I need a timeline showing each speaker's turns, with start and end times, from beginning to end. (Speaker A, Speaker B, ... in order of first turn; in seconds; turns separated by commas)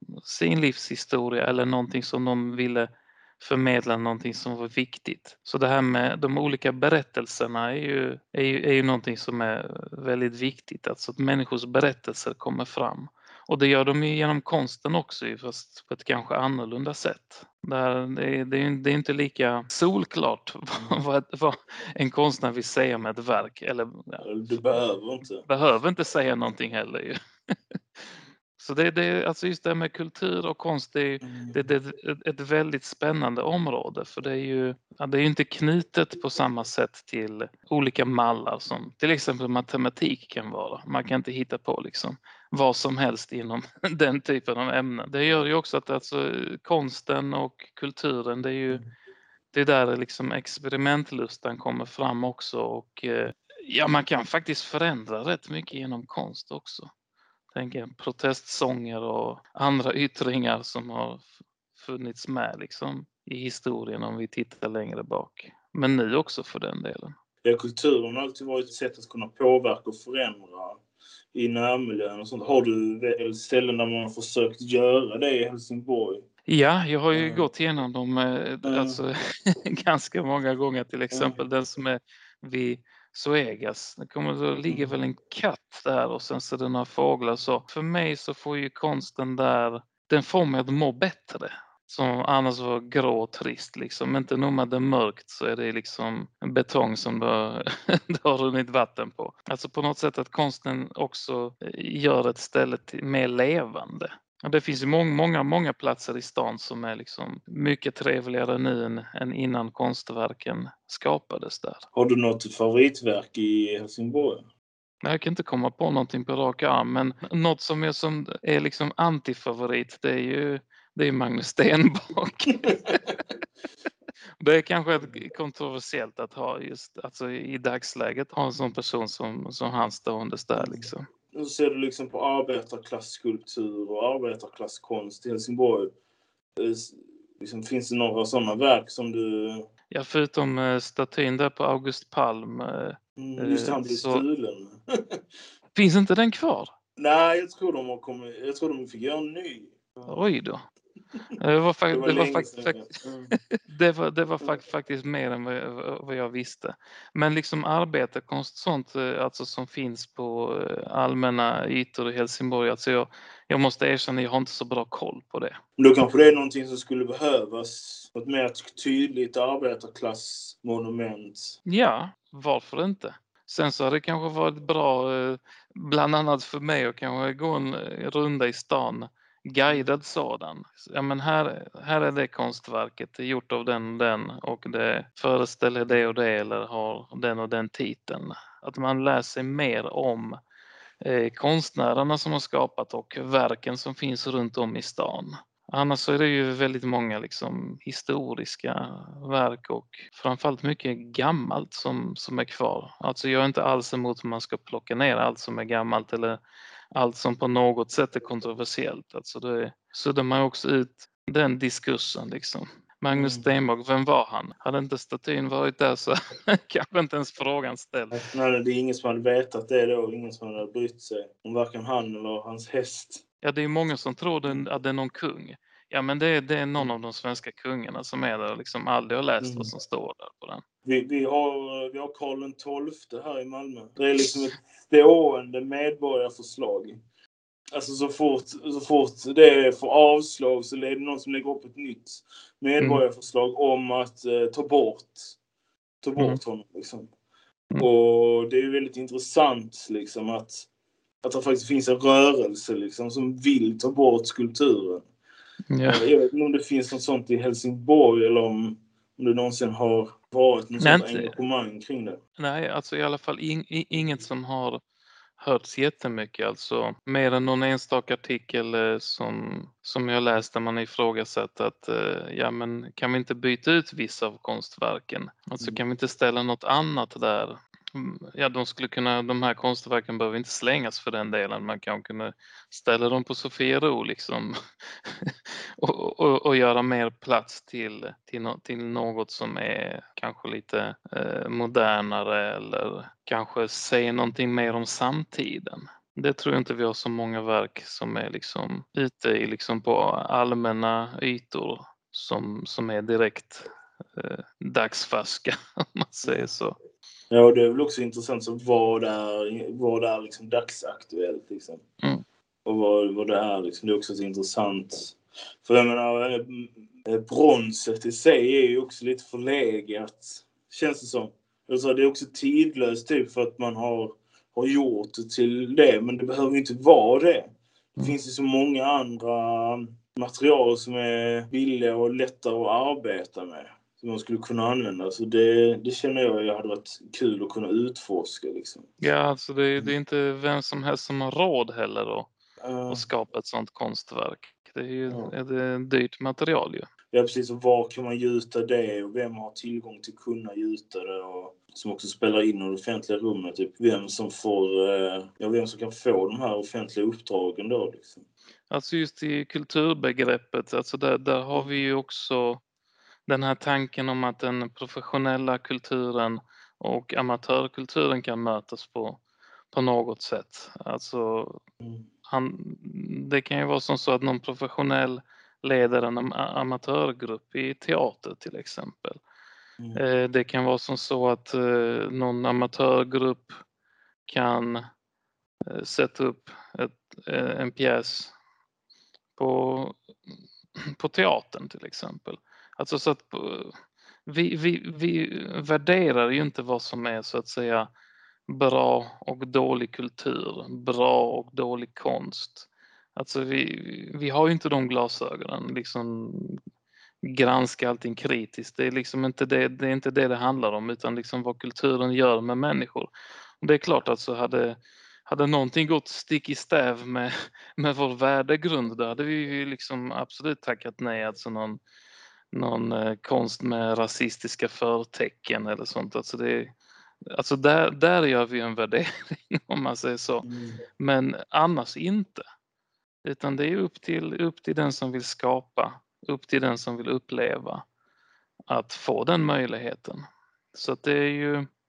Speaker A: 0.2-24.8, Speaker B: 24.2-25.4, Speaker A: 25.4-48.8, Speaker B: 31.2-31.6, Speaker A: 49.5-56.9, Speaker A: 57.5-67.1, Speaker B: 67.4-70.8, Speaker B: 71.3-76.2, Speaker A: 76.5-111.8, Speaker B: 77.1-77.5, Speaker B: 78.6-79.0, Speaker B: 81.1-81.4, Speaker B: 84.7-85.0, Speaker B: 111.9-114.4, Speaker A: 115.0-123.1, Speaker A: 124.4-131.0, Speaker B: 130.6-135.9, Speaker B: 136.6-139.7, Speaker A: 139.9-144.2, Speaker B: 143.2-145.2, Speaker A: 145.7-146.7, Speaker B: 146.9-150.2, Speaker A: 150.1-150.6, Speaker A: 151.4-152.8, Speaker B: 151.9-153.3, Speaker A: 153.5-165.6, Speaker B: 165.8-171.6, Speaker A: 171.7-190.4, Speaker A: 191.0-206.4, Speaker A: 206.9-218.2, Speaker B: 213.1-213.5, Speaker B: 218.2-223.2, Speaker A: 223.4-230.6, Speaker B: 229.4-229.7, Speaker B: 230.8-237.0, Speaker B: 237.7-245.4, Speaker B: 246.0-247.1, Speaker B: 247.8-250.7, Speaker B: 251.2-255.1, Speaker A: 255.7-256.1, Speaker B: 255.8-262.2, Speaker A: 260.8-261.4, Speaker A: 262.4-264.8, Speaker A: 265.4-306.8, Speaker B: 306.2-306.5, Speaker B: 307.3-311.8, Speaker B: 312.6-338.9, Speaker A: 339.0-342.3, Speaker B: 342.6-343.1, Speaker A: 342.9-346.9, Speaker B: 345.1-345.3, Speaker B: 347.1-358.2, Speaker A: 358.7-362.6, Speaker A: 363.3-369.2, Speaker A: 369.7-371.6, Speaker B: 371.8-372.1, Speaker A: 372.3-379.2, Speaker A: 379.9-383.6, Speaker A: 384.2-384.8, Speaker A: 385.6-388.3, Speaker A: 389.4-390.0, Speaker A: 390.9-393.7, Speaker A: 394.2-397.9, Speaker A: 398.5-406.6, Speaker A: 407.2-421.8, Speaker A: 422.5-426.7, Speaker A: 427.3-430.5, Speaker B: 430.4-430.8, Speaker A: 431.0-432.4, Speaker A: 433.2-437.8, Speaker A: 438.7-440.2, Speaker A: 440.7-441.6